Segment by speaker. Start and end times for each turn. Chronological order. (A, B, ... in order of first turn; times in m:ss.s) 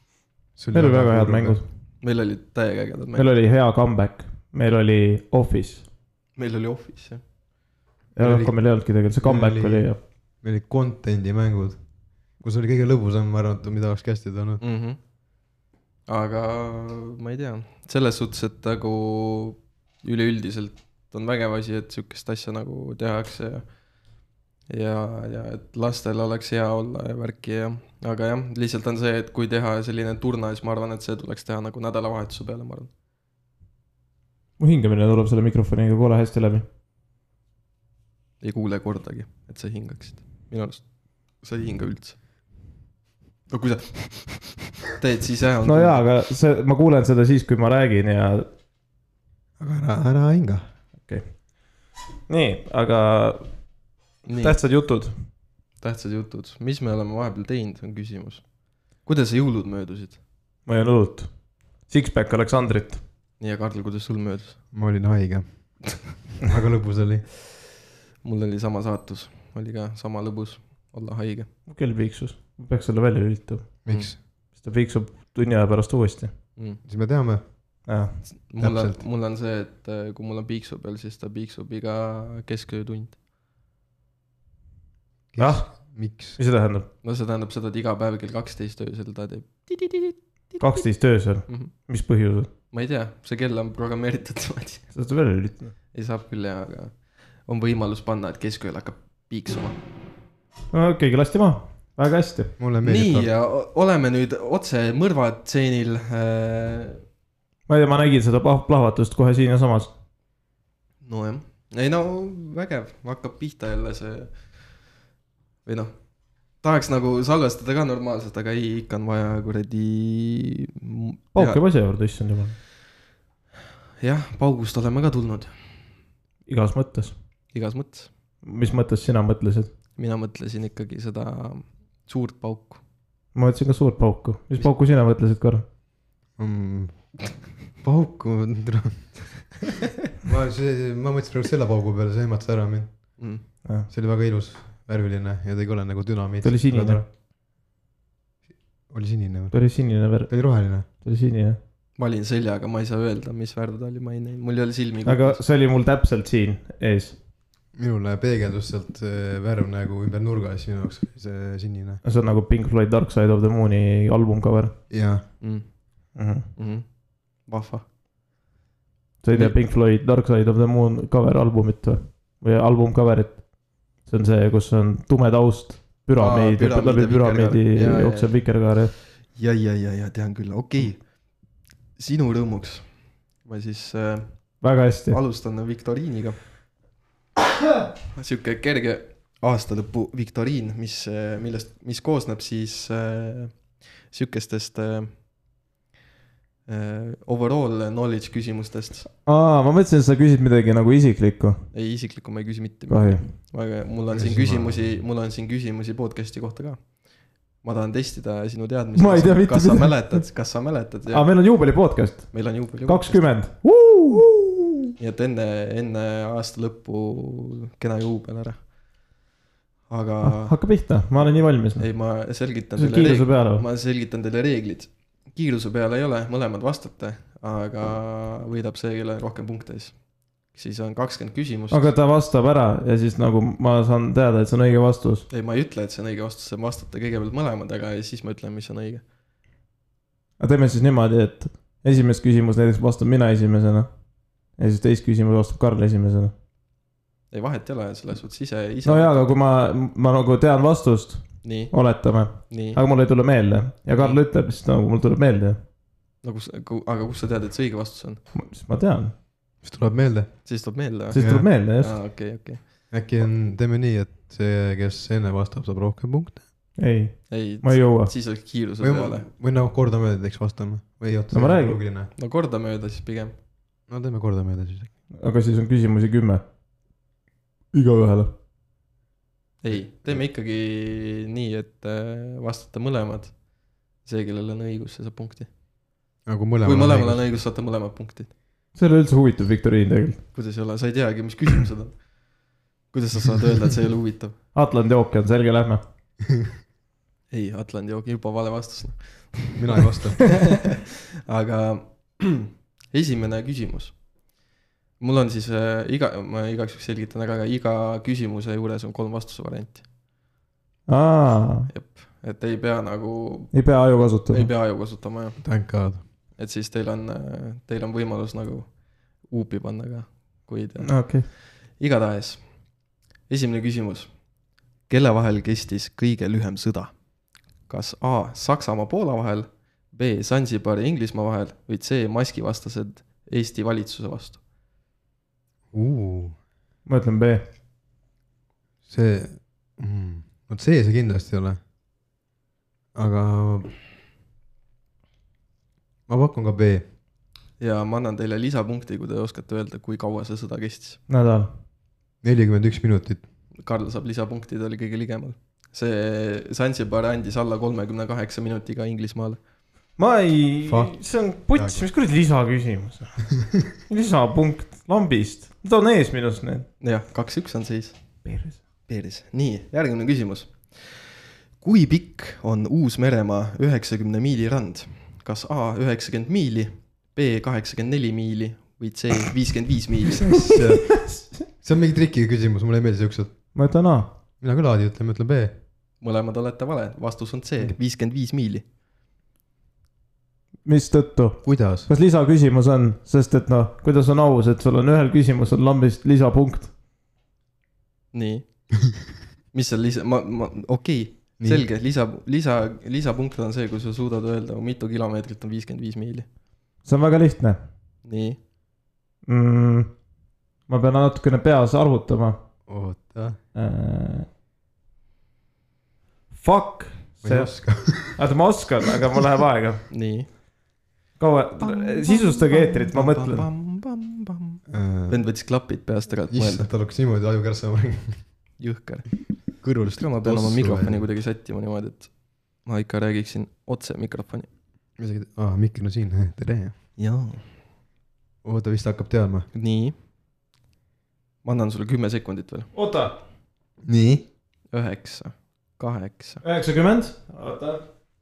0:00.6-0:01.6 A
0:00.7-0:01.6 B
0:02.0-0:03.3 C
0:03.2-0:05.9 B
0:06.4-0:07.2 C
0:08.2-0:10.0 B
0:08.2-0:11.8 A
0:12.4-0:14.6 A
0:14.6-0:15.0 C
0:16.1-0:23.8 C
0:24.7-0:32.9 C
0:34.6-0:36.6 B
0:38.4-0:42.2 C
0:43.5-0:46.0 C
0:45.6-0:48.5 B
0:49.6-0:50.6 A
0:51.0-0:51.5 B
0:52.3-0:53.5 B
0:54.2-0:54.6 C
0:54.4-0:55.1 B
0:55.8-0:58.5 C
0:59.0-1:00.2 C
1:00.7-1:01.3 B
1:01.8-1:03.0 B
1:03.4-1:04.6 C
1:04.7-1:07.3 A
1:08.2-1:11.5 C
1:11.7-1:13.7 B
1:13.8-1:14.2 A
1:14.4-1:16.3 B
1:16.8-1:17.4 A
1:17.9-1:18.3 B
1:18.3-1:23.2 C
1:18.6-1:19.0 A
1:25.3-1:26.4 A
1:25.4-1:26.9 B
1:27.0-1:30.9 C
1:30.6-1:32.5 B
1:31.5-1:31.7 C
1:32.7-1:34.9 C
1:34.9-1:35.8 B
1:35.9-1:39.8 C
1:40.7-1:42.6 B
1:42.6-1:43.3 A
1:42.8-1:47.0 C
1:47.7-1:49.9 B
1:51.0-1:54.7 C
1:55.7-1:55.9 C
1:56.6-2:01.6 C
2:01.3-2:02.6 B
2:04.0-2:05.5 C
2:06.5-2:07.1 B
2:07.5-2:08.1 C
2:08.4-2:09.7 B
2:10.0-2:12.8 C
2:13.4-2:15.6 B
2:16.4-2:19.2 A
2:20.2-2:23.2 A
2:23.2-2:23.4 C
2:23.9-2:27.1 A
2:26.4-2:27.0 B
2:28.9-2:29.6 A
2:29.5-2:31.6 B
2:30.3-2:30.9 A
2:32.0-2:35.4 C
2:35.1-2:37.2 B
2:37.7-2:42.0 A
2:42.0-2:44.8 B
2:44.9-2:45.2 A
2:45.4-2:45.7 C
2:46.2-2:46.5 B
2:46.6-2:47.8 C
2:49.2-2:59.0 B
2:49.3-2:49.6 C
2:56.2-2:58.7 C
2:59.3-3:01.1 C
3:02.0-3:06.4 C
3:04.6-3:05.2 B
3:08.1-3:15.1 C
3:16.7-3:19.1 C
3:19.2-3:21.7 B
3:21.7-3:26.9 C
3:22.9-3:23.3 B
3:24.2-3:25.0 A
3:27.6-3:31.3 C
3:29.0-3:30.3 B
3:31.1-3:34.9 B
3:32.3-3:33.2 C
3:35.0-3:38.7 C
3:39.9-3:40.6 C
3:40.2-3:41.9 B
3:41.8-3:50.0 C
3:42.8-3:43.7 B
3:50.5-3:51.9 C
3:51.7-3:55.3 B
3:55.3-3:59.0 C
4:00.4-4:03.9 B
4:04.6-4:06.3 B
4:07.3-4:09.4 C
4:08.8-4:15.6 B
4:11.4-4:12.8 C
4:13.9-4:14.2 C
4:16.2-4:18.2 C
4:18.3-4:19.1 B
4:19.6-4:20.4 A
4:20.4-4:22.6 C
4:21.1-4:21.5 A
4:21.1-4:22.0 B
4:22.9-4:26.4 A
4:26.8-4:28.1 B
4:27.3-4:29.3 C
4:28.8-4:32.1 A
4:31.3-4:31.8 B
4:32.2-4:33.4 C
4:33.9-4:34.9 A
4:35.1-4:36.4 B
4:37.7-4:38.3 B
4:39.6-4:43.4 C
4:39.7-4:40.2 A
4:44.0-4:45.5 C
4:46.3-4:47.3 A
4:46.6-4:48.3 C
4:48.8-4:50.2 B
4:50.3-4:52.0 C
4:52.9-4:54.4 C
4:54.5-4:55.8 B
4:57.3-5:04.0 C
4:59.6-5:00.6 A
5:05.0-5:09.8 C
5:10.9-5:11.7 B
5:11.7-5:13.6 C
5:13.5-5:14.5 B
5:14.3-5:15.4 C
5:15.4-5:16.0 A
5:16.4-5:22.5 C
5:20.8-5:21.3 B
5:23.3-5:24.1 C
5:24.9-5:26.9 C
5:27.7-5:34.4 C
5:35.7-5:36.4 A
5:36.8-5:37.5 B
5:38.9-5:41.6 A
5:43.0-5:43.7 A
5:46.1-5:46.8 A
5:47.6-5:51.0 C
5:51.1-5:51.5 B
5:52.2-5:53.2 A
5:53.6-5:59.4 C
6:00.0-6:06.7 B
6:00.7-6:01.8 A
6:06.8-6:08.0 C
6:08.2-6:08.6 B
6:08.9-6:20.5 C
6:20.2-6:23.4 A
6:20.5-6:21.2 B
6:23.5-6:24.1 B
6:24.4-6:25.6 A
6:26.0-6:28.6 C
6:30.6-6:36.7 B
6:31.4-6:31.9 A
6:38.1-6:38.5 C
6:39.5-6:46.3 C
6:41.4-6:41.7 A
6:46.8-6:47.6 B
6:48.0-6:48.4 C
6:49.3-6:50.0 B
6:50.7-6:52.4 B
6:52.7-6:53.4 A
6:53.5-6:54.3 B
6:56.3-6:59.8 B
6:57.2-6:58.2 A
6:59.9-7:00.3 C
7:01.2-7:03.5 B
7:01.6-7:06.7 C
7:04.7-7:05.3 A
7:06.3-7:08.3 A
7:08.6-7:14.5 C
7:09.6-7:11.1 A
7:15.0-7:16.8 A
7:17.0-7:17.5 C
7:18.4-7:19.5 A
7:19.5-7:20.0 C
7:21.4-7:22.7 C
7:22.7-7:23.1 B
7:23.8-7:24.3 A
7:24.7-7:26.4 C
7:26.4-7:27.9 B